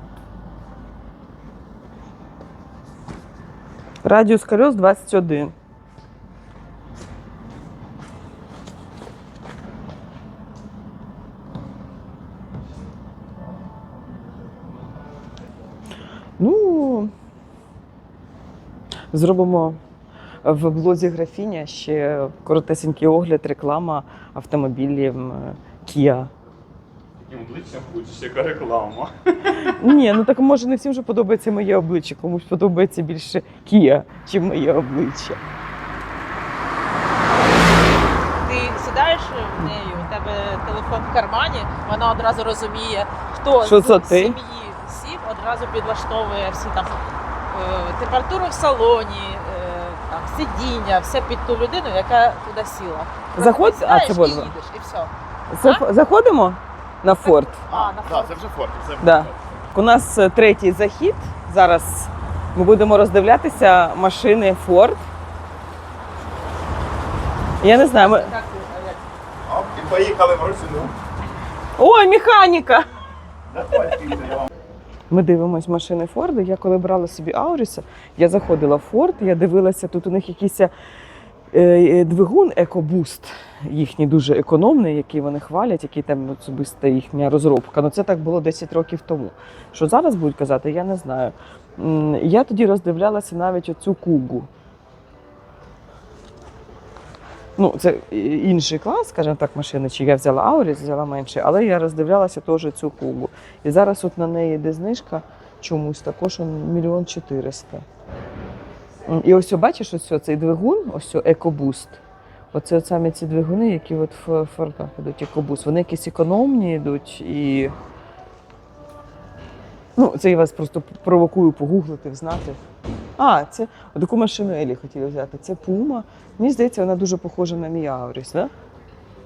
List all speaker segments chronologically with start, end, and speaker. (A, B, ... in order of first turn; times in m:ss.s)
0:04.0-0:05.5 A
0:16.4-0:17.1 A
0:19.1-0:19.8 A
0:20.4-0:26.3 A
0:27.2-0:29.7 B
0:29.6-0:35.4 A
0:38.4-0:55.1 C
0:43.6-0:44.4 A
0:53.3-0:54.5 A
0:55.5-0:57.6 A
0:57.2-0:58.4 C
0:57.7-0:59.4 D
0:59.0-1:05.0 A
1:07.6-1:08.3 A
1:07.7-1:09.2 C
1:09.4-1:11.0 D
1:11.8-1:12.9 A
1:13.5-1:14.5 D
1:15.1-1:20.7 A
1:21.5-1:34.5 A
1:37.6-1:47.8 A
1:49.1-1:52.0 A
1:52.5-1:57.8 A
2:00.0-2:02.6 A
2:03.2-2:08.5 A